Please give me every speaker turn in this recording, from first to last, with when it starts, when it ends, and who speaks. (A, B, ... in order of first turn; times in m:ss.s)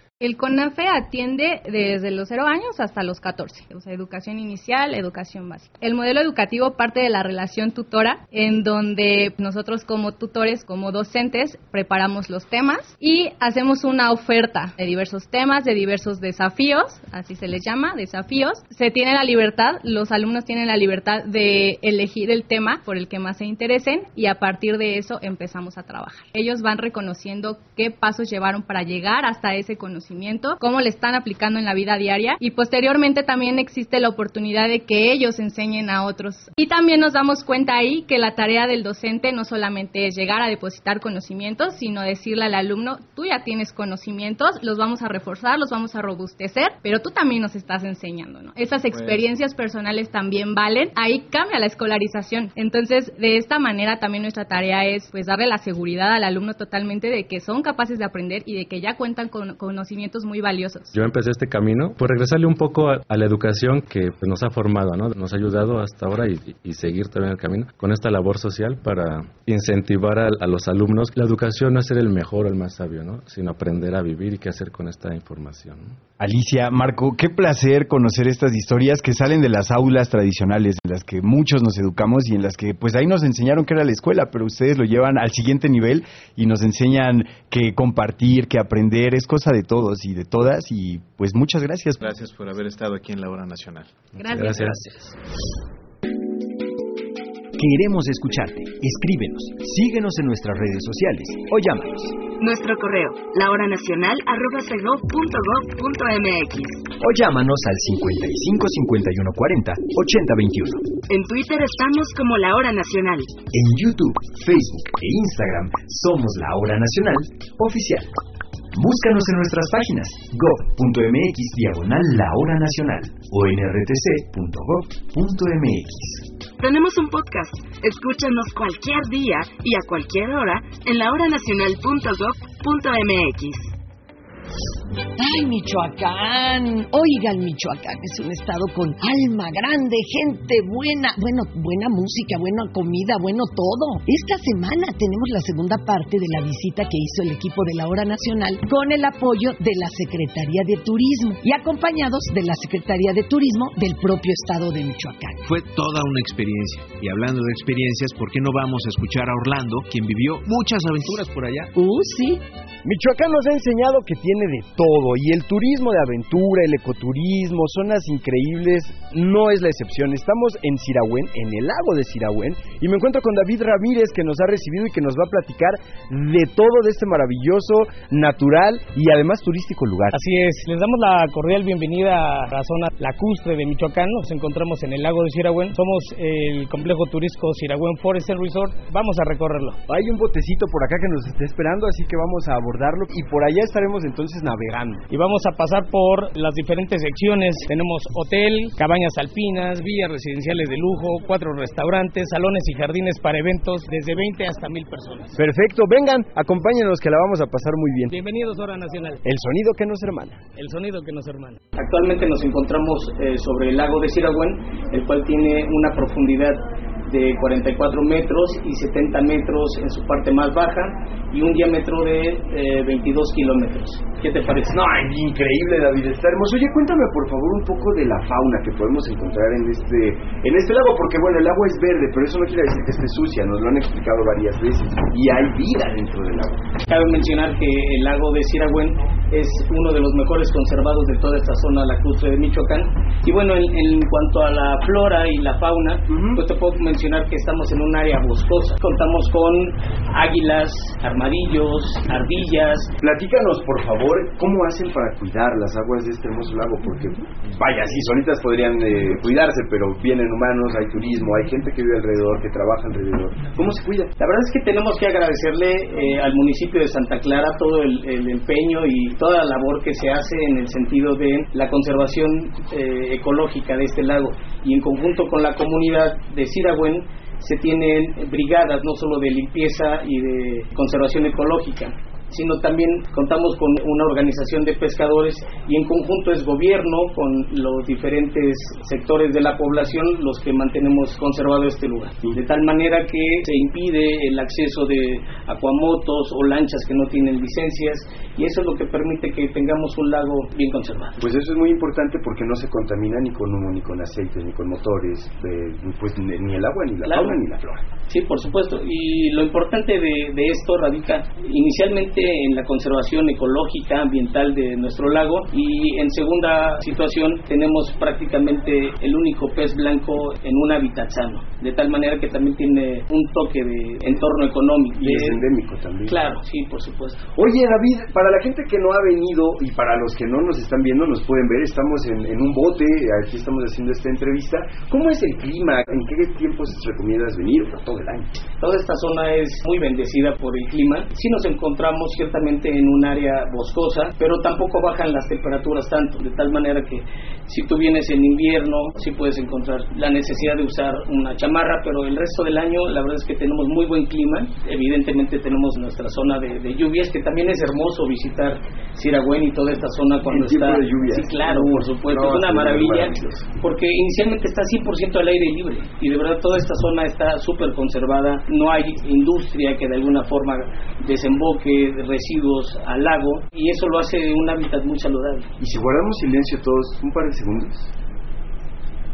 0:00.2-1:00.9 A
1:00.9-1:16.0 B
1:16.2-1:32.1 C
1:32.3-1:33.8 D
1:34.2-1:35.1 A
1:34.2-1:34.8 B
1:37.6-1:42.2 E
1:42.4-1:46.9 F
1:47.0-1:50.9 E
1:51.1-1:53.4 F
1:53.5-1:58.1 E
1:58.7-2:06.3 E
2:06.6-2:13.7 F
2:15.2-2:35.5 G
2:35.4-2:41.6 D
2:41.7-2:42.4 G
2:42.8-3:00.2 H
3:00.1-3:09.8 I
3:09.9-3:15.0 H
3:15.1-3:25.3 I
3:25.4-3:28.1 H
3:28.1-3:29.2 I
3:29.2-3:30.4 H
3:30.5-3:44.8 I
3:44.7-3:56.6 H
3:56.9-4:12.9 I
4:06.1-4:06.4 H
4:13.0-4:24.1 H
4:24.2-5:01.2 I
5:01.2-5:07.8 H
5:07.0-5:07.4 I
5:08.1-5:25.4 I
5:25.0-5:26.3 H
5:26.0-5:27.2 I
5:27.3-5:38.4 H
5:38.6-6:15.5 I
6:00.2-6:03.2 H
6:15.6-6:17.9 H